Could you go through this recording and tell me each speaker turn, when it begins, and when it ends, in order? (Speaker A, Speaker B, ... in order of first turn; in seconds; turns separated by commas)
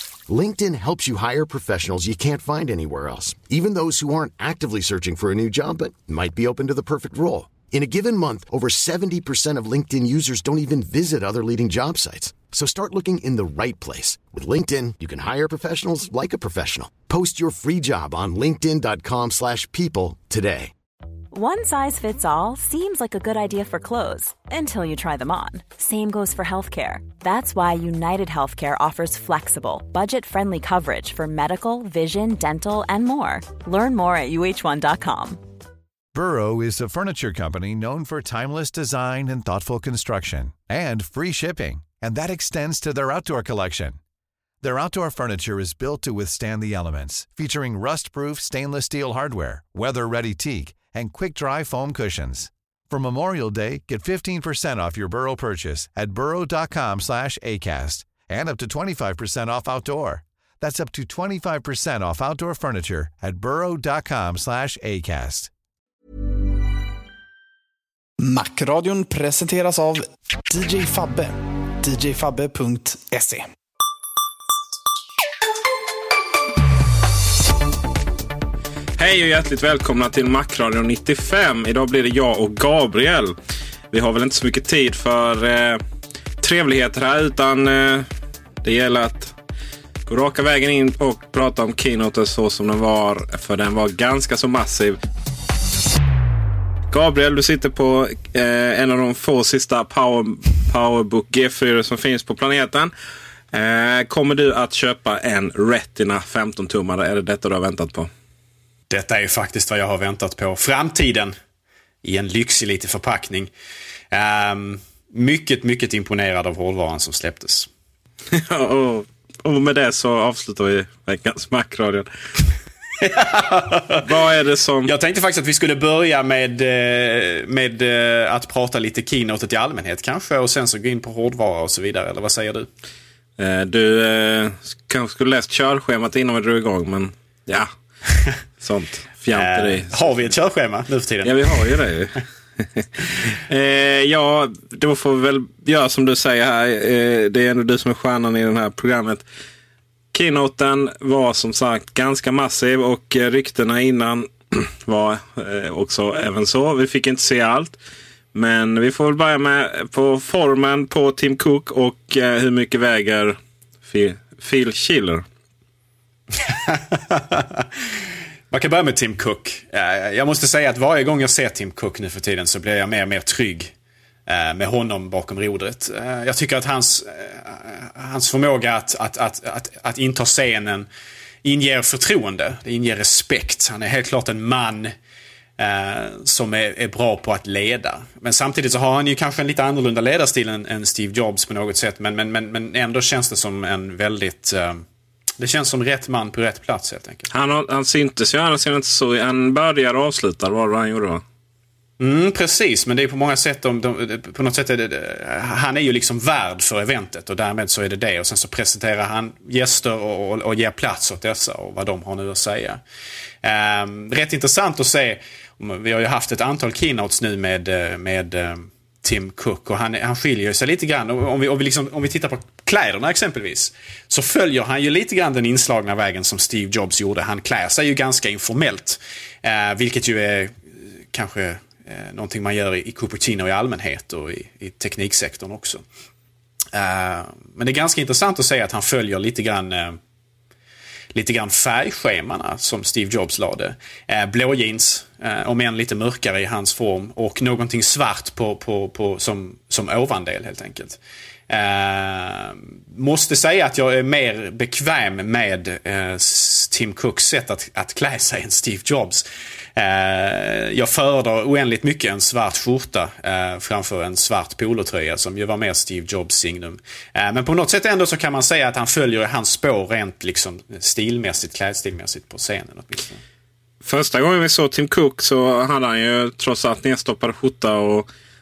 Speaker A: 0.3-20.7, Speaker B: 21.3-35.4, Speaker C: 36.1-44.0, Speaker C: 44.6-65.5, Speaker D: 68.2-73.4, Speaker E: 79.0-83.4, Speaker E: 83.9-85.8, Speaker E: 86.4-88.1, Speaker E: 88.6-89.3, Speaker E: 90.1-95.0, Speaker E: 96.9-102.9, Speaker E: 103.5-108.1, Speaker F: 108.9-111.3, Speaker F: 112.0-113.5, Speaker F: 114.1-117.7, Speaker E: 118.3-122.1, Speaker F: 123.0-124.0, Speaker E: 124.0-124.9, Speaker F: 124.8-132.7, Speaker E: 133.4-137.7, Speaker E: 138.6-140.3, Speaker F: 139.3-141.7, Speaker E: 141.2-142.2, Speaker E: 142.8-149.2, Speaker E: 150.1-157.8, Speaker E: 158.3-165.2, Speaker F: 166.4-167.7, Speaker F: 168.5-173.7, Speaker F: 174.3-180.9, Speaker F: 181.4-184.9, Speaker F: 185.6-194.8, Speaker F: 195.4-197.3, Speaker E: 197.3-201.2, Speaker F: 202.0-212.8, Speaker F: 213.4-235.8, Speaker F: 236.7-240.0, Speaker F: 241.1-259.2, Speaker F: 259.8-273.2, Speaker E: 273.8-278.1